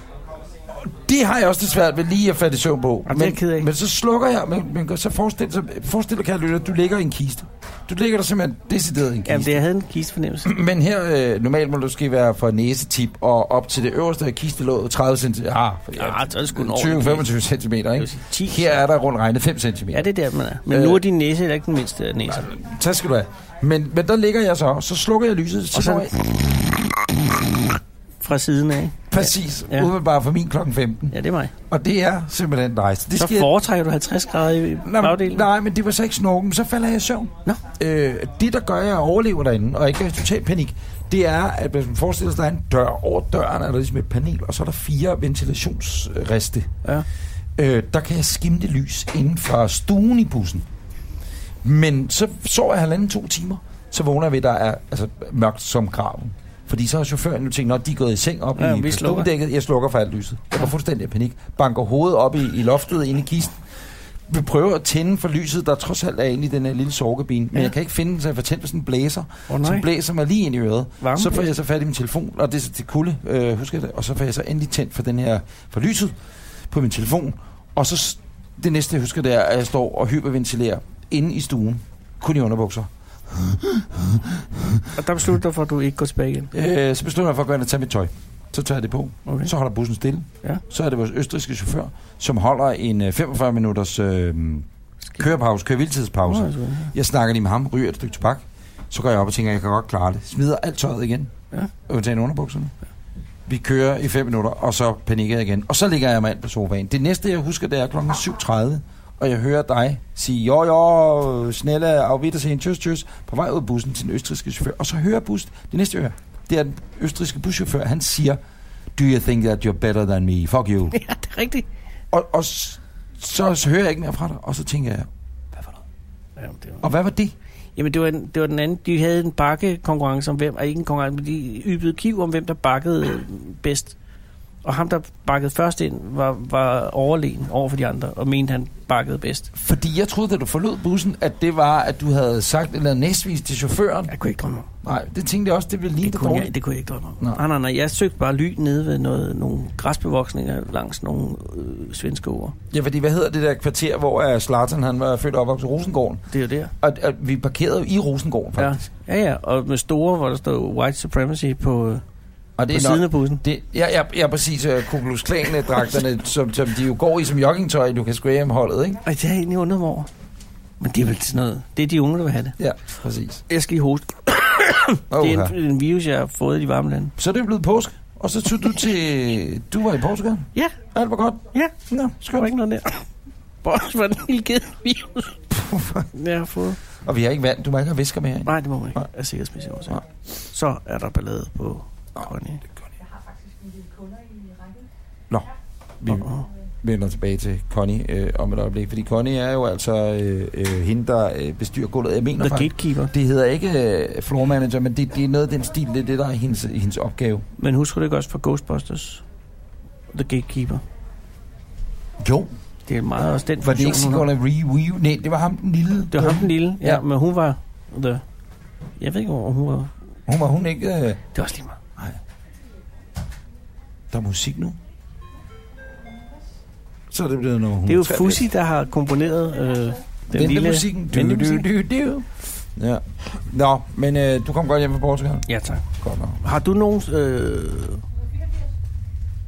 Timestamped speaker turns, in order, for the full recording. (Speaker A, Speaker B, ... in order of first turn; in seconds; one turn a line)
Speaker A: 0.7-9.6
Speaker B: 3.0-3.7
Speaker B: 9.3-10.5
Speaker A: 10.4-20.1
Speaker B: 15.9-17.3
Speaker B: 18.0-18.8
Speaker B: 19.9-22.5
Speaker A: 20.7-21.0
Speaker A: 22.2-27.7
Speaker B: 25.7-26.1
Speaker B: 28.2-29.9
Speaker A: 29.1-31.1
Speaker B: 31.1-31.5
Speaker A: 31.7-33.5
Speaker B: 33.1-35.5
Speaker A: 34.8-46.7
Speaker A: 47.6-50.6
Speaker A: 51.6-63.6
Speaker B: 58.5-59.3
Speaker A: 64.3-76.2
Speaker B: 69.5-69.9
Speaker B: 71.0-71.5
Speaker A: 76.7-84.9
Speaker B: 85.0-86.5
Speaker A: 86.5-94.7
Speaker A: 95.2-101.3
Speaker B: 96.3-96.9
Speaker A: 101.9-102.7
Speaker A: 103.5-118.4
Speaker A: 119.0-121.0
Speaker B: 120.9-121.7
Speaker A: 122.1-125.1
Speaker B: 126.4-126.9
Speaker A: 126.8-127.3
Speaker B: 127.8-133.9
Speaker B: 134.6-139.5
Speaker A: 139.5-144.1
Speaker B: 144.1-144.7
Speaker A: 144.8-146.5
Speaker B: 146.0-152.5
Speaker A: 152.7-156.2
Speaker B: 156.3-156.7
Speaker A: 156.8-158.8
Speaker B: 158.6-162.0
Speaker A: 162.6-169.0
Speaker B: 162.7-163.4
Speaker B: 169.0-170.1
Speaker B: 170.8-172.6
Speaker A: 172.6-173.4
Speaker B: 173.5-177.1
Speaker A: 175.1-175.5
Speaker A: 177.2-182.5
Speaker B: 182.3-183.0
Speaker B: 183.6-185.4
Speaker A: 185.5-186.1
Speaker B: 186.1-186.8
Speaker A: 187.0-189.0
Speaker B: 188.4-192.6
Speaker A: 196.0-196.3
Speaker B: 196.1-196.5
Speaker A: 196.8-207.4
Speaker B: 202.4-203.1
Speaker B: 207.6-209.2
Speaker B: 210.1-210.8
Speaker A: 212.2-212.5
Speaker B: 212.9-214.3
Speaker A: 213.6-217.0
Speaker B: 216.1-218.2
Speaker B: 219.0-219.9
Speaker A: 220.3-221.2
Speaker B: 221.3-221.8
Speaker A: 224.1-224.8
Speaker A: 227.1-228.5
Speaker B: 227.9-231.7
Speaker A: 230.3-235.4
Speaker B: 235.5-235.8
Speaker A: 236.0-236.4
Speaker B: 236.4-238.0